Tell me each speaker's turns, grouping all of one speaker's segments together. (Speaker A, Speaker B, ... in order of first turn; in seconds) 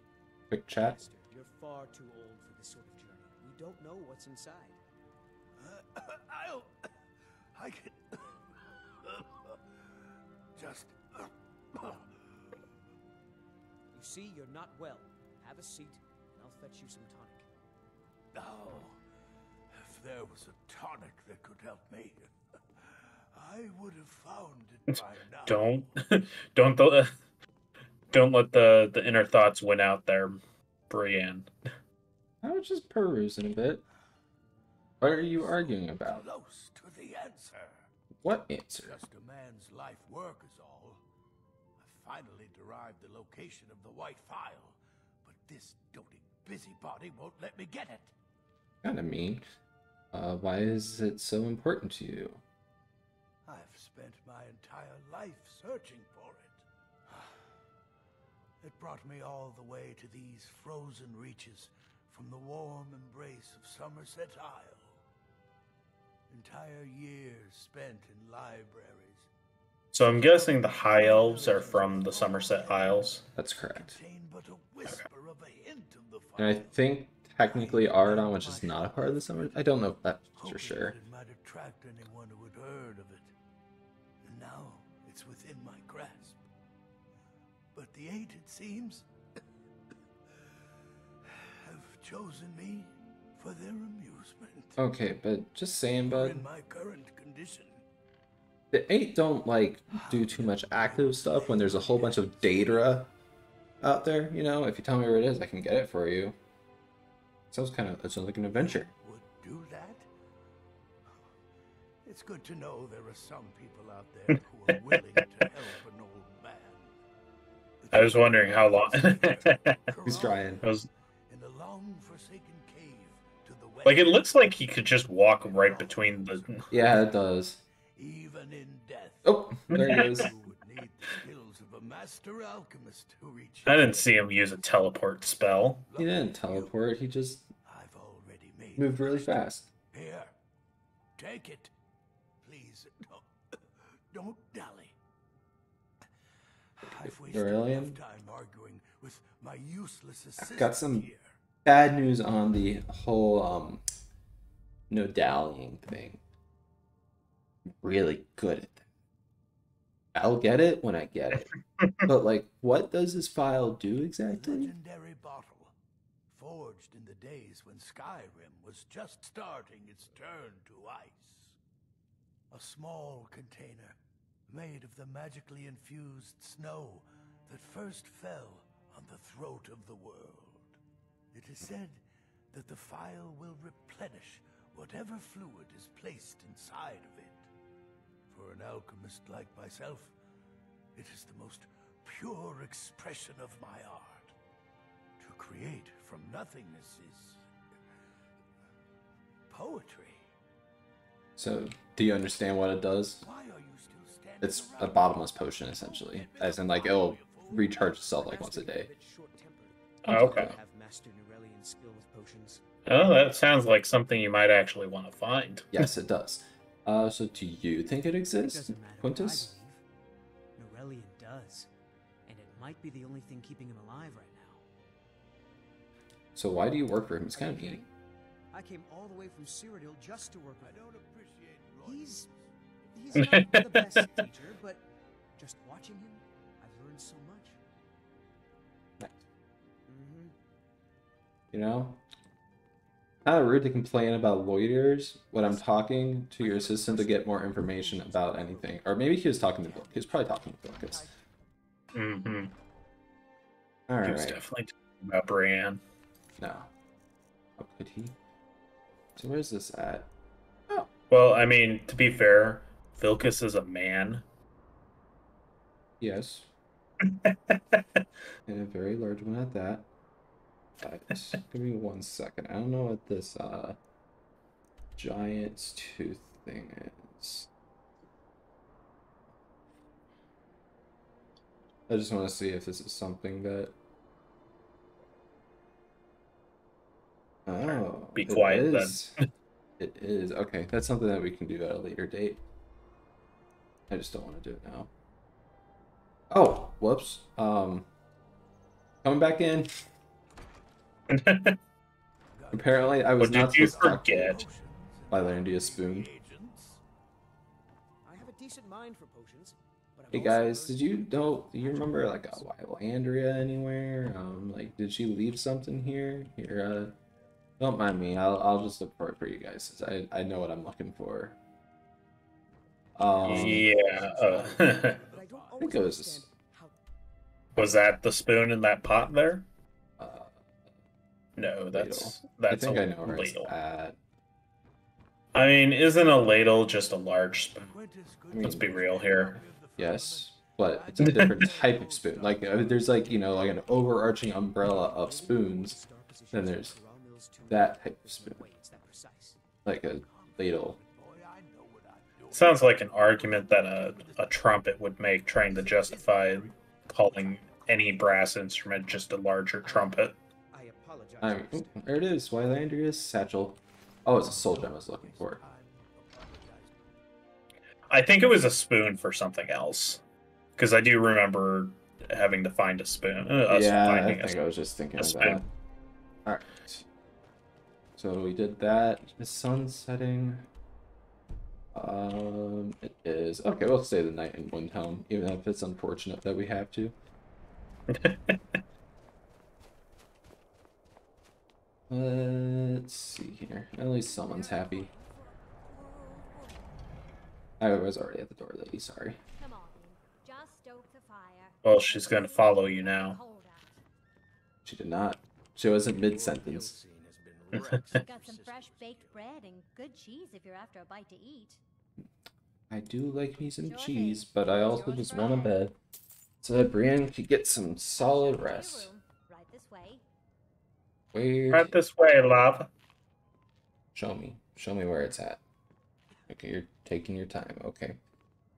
Speaker A: 0.5-1.0, 32.4-33.8, 35.0-36.3, 38.2-39.0, 48.8-49.5, 50.1-52.4, 73.4-74.0, 76.4-81.0, 94.8-96.5, 98.7-103.1, 103.8-106.4, 107.5-108.9, 120.1-120.7, 126.7-127.6, 129.2-130.3, 136.0-137.5, 138.8-139.7, 146.9-148.0, 150.4-151.1, 151.7-153.8, 154.9-156.2, 157.8-158.8, 160.2-161.5, 162.1-164.8, 201.4-203.3, 204.4-208.9, 210.1-210.6, 215.7-219.6, 226.3-227.8, 241.5-242.0, 243.2-251.1, 253.9-254.4, 256.4-256.7, 257.6-258.2, 259.2-260.1, 266.0-266.5, 268.5-269.9, 270.8-273.8, 275.0-277.5, 281.9-283.8, 287.5-289.1, 289.8-292.4, 293.9-294.9, 296.3-297.9, 299.0-299.7, 302.5-304.4, 305.1-306.1, 310.1-317.0, 317.6-321.4, 323.0-323.7, 325.6-326.3, 330.0-330.3, 331.7-334.0, 338.3-338.7, 339.8-345.8, 346.3-346.8, 347.5-348.4, 349.6-350.8, 361.2-365.4, 373.5-375.5, 376.2-376.9, 378.0-380.5, 381.7-387.0, 391.9-394.9, 397.6-399.2, 404.6-406.8, 412.7-415.8, 416.4-418.9, 421.1-421.7, 423.9-425.4, 426.3-428.0
Speaker B: 0.8-4.8, 13.9-17.5, 208.0-212.6, 218.4-219.8, 220.6-221.7, 222.3-224.6, 227.3-227.9, 228.5-230.8, 231.8-232.3, 232.9-237.6, 239.9-240.3, 245.4-245.8, 246.4-251.2, 308.1-312.5, 324.1-326.8, 344.6-349.4, 360.5-361.9, 405.9-406.7, 407.4-408.5
Speaker C: 5.6-6.9, 7.5-9.6, 10.6-12.6, 18.3-19.0, 19.7-26.0, 35.2-37.9, 38.8-41.0, 41.8-48.1, 53.5-57.5, 58.6-65.0, 66.3-69.3, 70.4-76.8, 77.5-79.5, 80.3-83.3, 84.2-86.4, 87.7-89.1, 91.2-94.8, 96.1-97.8, 99.9-103.0, 108.5-110.1, 112.0-117.0, 117.8-124.3, 125.4-127.1, 128.0-134.1, 135.9-136.8, 137.7-139.2, 139.9-140.3, 141.2-141.7, 142.4-145.0, 146.8-151.4, 164.3-165.7, 166.3-171.6, 172.5-180.8, 181.3-187.5, 188.3-190.2, 190.9-194.3, 195.2-197.4, 199.5-200.3, 203.2-208.1, 230.6-232.5, 233.1-233.4, 302.4-306.8, 323.2-325.9, 337.6-343.7, 350.0-354.6, 355.4-358.4, 364.3-367.0, 406.0-409.1
Speaker D: 25.5-27.1, 28.1-30.4, 30.9-31.5, 69.9-73.2, 114.3-115.0, 117.9-119.8, 120.6-120.9, 123.8-126.6, 129.7-130.1, 133.7-135.9, 210.1-210.5, 212.9-215.9, 233.2-234.1, 251.9-252.5, 254.0-255.8, 261.1-264.2, 267.0-268.0, 287.6-289.0, 301.1-301.6, 303.2-304.4, 323.3-325.0, 327.6-329.4, 331.4-333.5, 335.3-337.7, 338.4-339.4, 341.0-341.5, 352.3-360.2, 367.9-370.0, 370.6-374.4, 375.0-375.4, 387.9-388.6, 401.6-403.2, 407.5-407.8, 421.5-422.7
Speaker E: 394.1-396.6, 399.4-403.8, 408.0-411.6, 413.6-415.5, 418.1-420.0